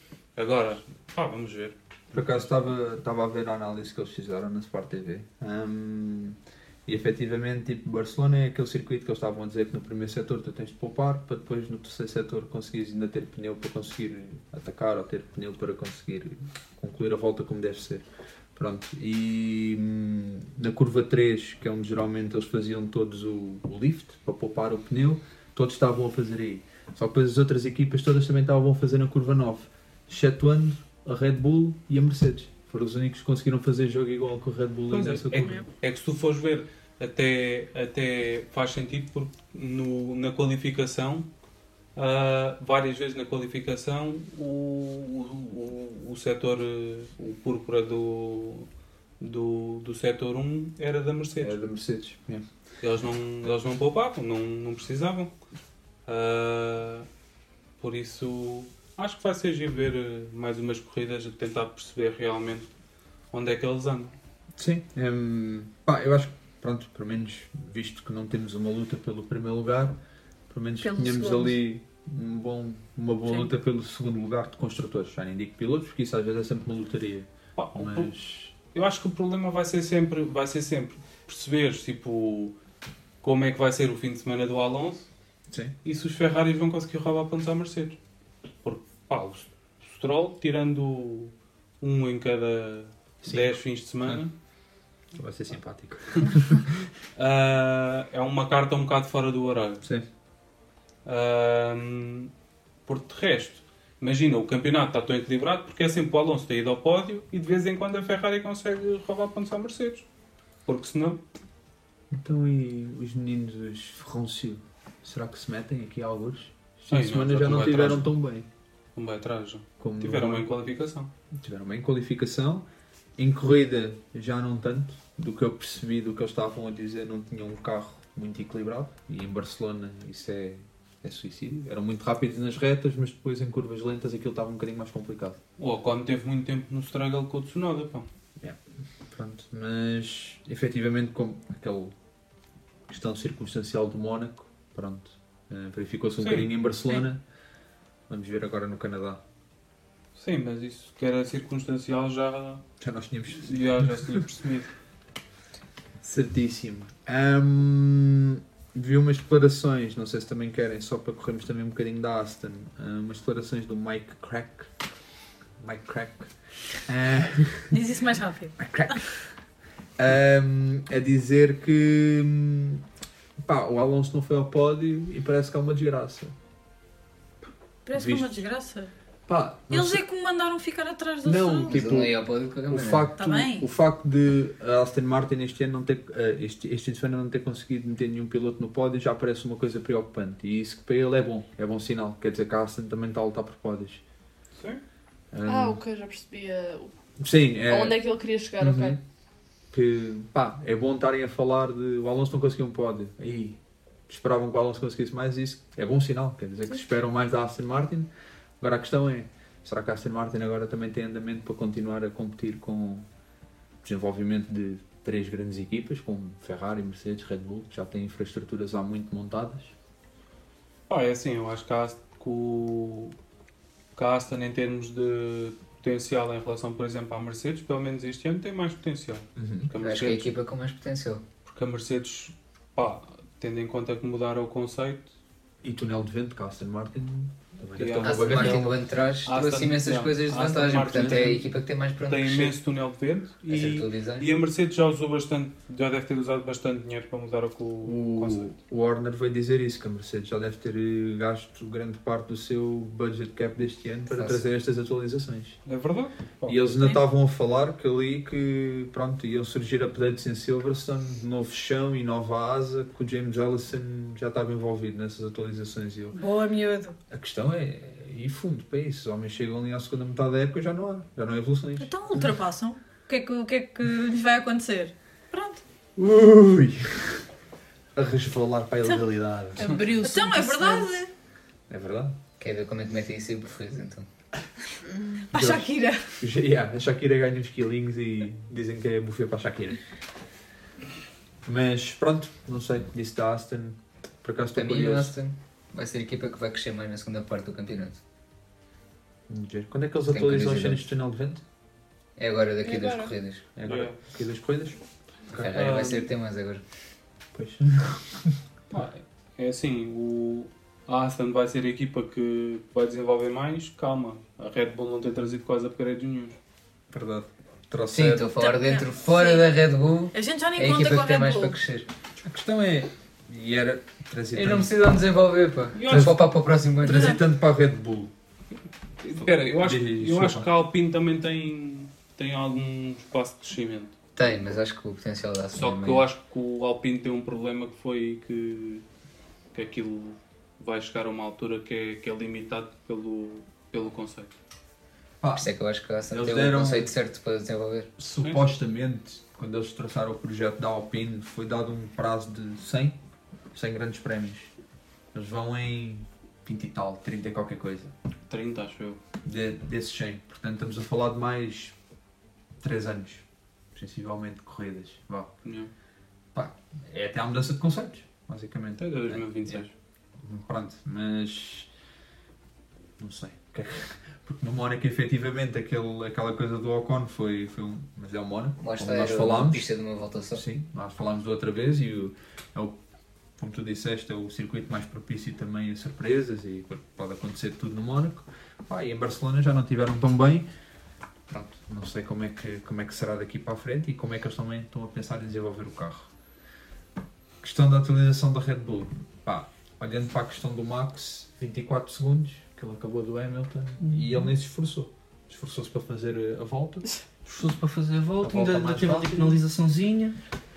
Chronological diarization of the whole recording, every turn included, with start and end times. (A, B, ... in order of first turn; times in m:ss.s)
0:00.4-0:02.2 A
0:02.1-0:18.0 B
0:18.6-0:35.6 B
0:34.9-0:41.3 A
0:42.0-0:48.7 A
0:49.2-0:51.6 A
0:51.4-0:52.4 B
0:52.8-0:55.3 A
0:56.1-0:57.1 A
0:57.8-1:02.7 A
1:03.3-1:04.1 A
1:04.6-1:10.0 B
1:10.5-1:18.5 B
1:17.6-1:18.1 A
1:18.7-1:22.6 A
1:23.2-1:25.1 A
1:25.5-1:25.7 B
1:25.8-1:28.0 A
1:28.6-1:34.3 A
1:33.2-1:34.2 B
1:35.1-1:36.9 B
1:37.2-1:39.8 A
1:41.0-1:42.3 A
1:42.8-1:50.0 A
1:50.6-1:51.2 A
1:52.1-1:58.5 B
1:56.9-1:58.1 A
1:58.9-2:01.1 A
1:59.8-2:00.5 B
2:01.4-2:02.6 B
2:03.2-2:15.4 B
2:15.6-2:18.1 A
2:18.4-2:21.9 B
2:22.9-2:27.2 B
2:26.2-2:26.5 A
2:28.1-2:29.2 B
2:30.1-2:32.6 A
2:32.8-2:34.2 B
2:33.4-2:34.7 A
2:36.0-2:44.7 B
2:45.6-2:47.8 B
2:47.7-2:49.0 C
2:48.6-2:49.3 B
2:50.0-2:52.8 B
2:53.4-2:56.3 B
2:57.8-2:58.9 C
2:57.9-2:58.4 B
2:59.3-3:00.0 B
2:59.7-3:01.8 C
3:01.2-3:02.2 B
3:01.7-3:03.1 D
3:02.7-3:14.0 B
3:03.2-3:03.7 C
3:14.6-3:14.8 A
3:15.3-3:15.8 B
3:15.4-3:16.9 E
3:17.2-3:18.0 B
3:17.7-3:19.0 E
3:18.6-3:19.0 B
3:19.7-3:28.1 B
3:28.6-3:33.1 B
3:33.8-3:39.7 B
3:40.9-3:43.1 A
3:44.0-3:50.3 A
3:49.4-3:49.7 B
3:49.8-3:51.2 D
3:51.4-3:55.1 A
3:55.6-3:58.8 B
3:57.8-3:58.7 A
3:58.0-4:02.6 D
3:59.2-4:01.5 A
4:02.0-4:08.5 A
4:03.5-4:04.3 D
4:07.8-4:15.6 B
4:14.1-4:14.4 D
4:15.6-4:16.6 A
4:16.4-4:26.2 B
4:26.1-4:27.0 C
4:27.1-4:32.3 B
4:31.8-4:35.6 C
4:36.0-4:37.2 B
4:37.9-4:39.7 B
4:39.6-4:40.9 E
4:40.0-4:41.1 C
4:41.7-4:42.2 B
4:42.4-4:44.1 D
4:45.3-4:46.0 C
4:45.3-4:45.7 B
4:46.2-4:49.8 B
4:51.4-4:55.1 B
4:54.5-4:58.0 D
4:59.3-5:01.4 B
5:00.1-5:00.8 D
5:02.2-5:03.4 D
5:02.6-5:03.2 E
5:03.6-5:04.8 B
5:03.6-5:04.0 A
5:05.3-5:05.6 B
5:05.3-5:06.6 D
5:05.5-5:06.1 A
5:07.3-5:08.4 B
5:08.7-5:16.4 A
5:16.9-5:18.3 B
5:17.9-5:21.9 D
5:18.3-5:19.5 C
5:20.1-5:21.6 C
5:22.2-5:24.7 B
5:24.3-5:27.2 D
5:25.7-5:26.2 A
5:25.9-5:26.1 B
5:26.8-5:28.1 B
5:26.9-5:27.2 C
5:29.0-5:33.9 A
5:29.2-5:30.5 B
5:34.2-5:36.0 D
5:35.5-5:38.8 A
5:39.5-5:44.3 A
5:45.2-5:45.5 B
5:45.3-5:47.9 D
5:46.1-5:46.9 B
5:48.0-5:53.0 B
5:48.2-5:48.4 A
5:53.5-5:54.5 B
5:55.1-5:57.9 B
5:58.3-5:59.0 A
5:59.2-6:01.8 B
6:02.6-6:05.3 B
6:05.4-6:05.7 A
6:06.3-6:09.6 B
6:08.8-6:09.7 A
6:10.2-6:11.7 B
6:13.0-6:19.6 B
6:18.6-6:20.4 D
6:20.3-6:22.8 B
6:23.4-6:30.4 B
6:31.3-6:36.1 B
6:37.4-6:46.8 B
6:43.8-6:44.3 F
6:47.2-6:50.2 F
6:48.2-6:49.4 B